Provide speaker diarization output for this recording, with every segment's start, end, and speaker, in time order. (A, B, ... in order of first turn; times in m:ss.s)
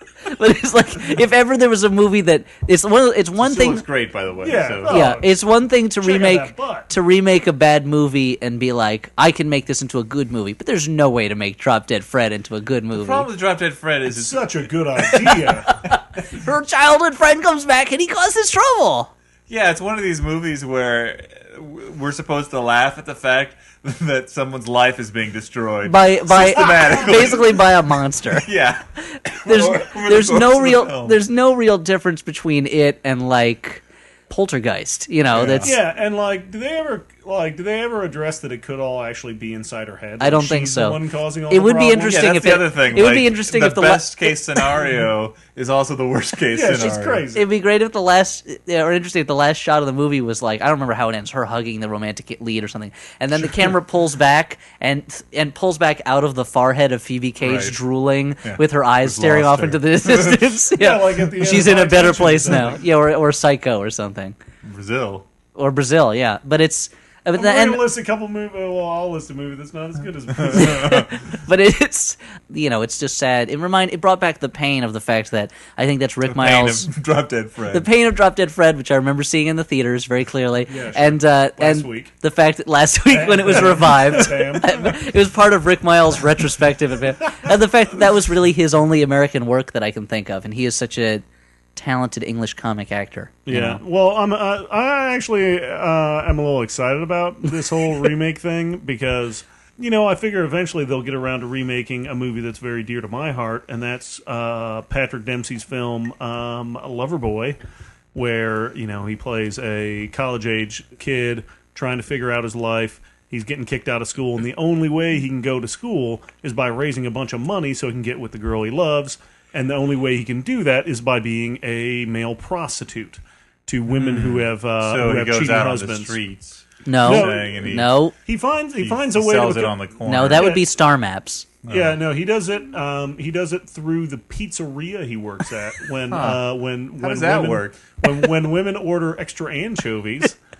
0:00.2-0:03.8 A
0:03.4-0:05.1 B
0:04.4-0:05.3 C
0:04.8-0:13.3 A
0:06.0-0:06.9 C
0:12.9-0:15.2 B
0:14.1-0:15.7 C
0:15.1-0:19.1 A
0:19.5-0:27.6 B
0:25.8-0:28.5 A
0:28.3-0:31.2 B
0:29.4-0:35.7 A
0:35.3-0:35.7 B
0:35.6-0:42.3 C
0:40.2-0:44.6 A
0:42.0-0:47.3 B
0:46.5-0:47.5 C
0:47.3-1:04.4 A
0:57.4-0:57.8 B
0:58.4-1:00.6 B
1:00.7-1:02.8 C
1:04.6-1:05.2 B
1:05.6-1:07.8 A
1:07.3-1:11.0 C
1:10.5-1:16.9 A
1:10.5-1:11.0 B
1:16.2-1:17.9 B
1:17.7-1:31.2 A
1:20.7-1:22.1 C
1:23.1-1:24.8 C
1:31.8-1:33.8 A
1:33.4-1:47.6 C
1:48.1-2:06.2 C
2:03.9-2:07.9 B
2:06.8-2:08.1 A
2:07.0-2:10.7 C
2:08.8-2:10.5 B
2:10.0-2:11.5 A
2:11.6-2:12.0 B
2:11.7-2:20.4 C
2:16.1-2:16.4 B
2:16.9-2:18.0 B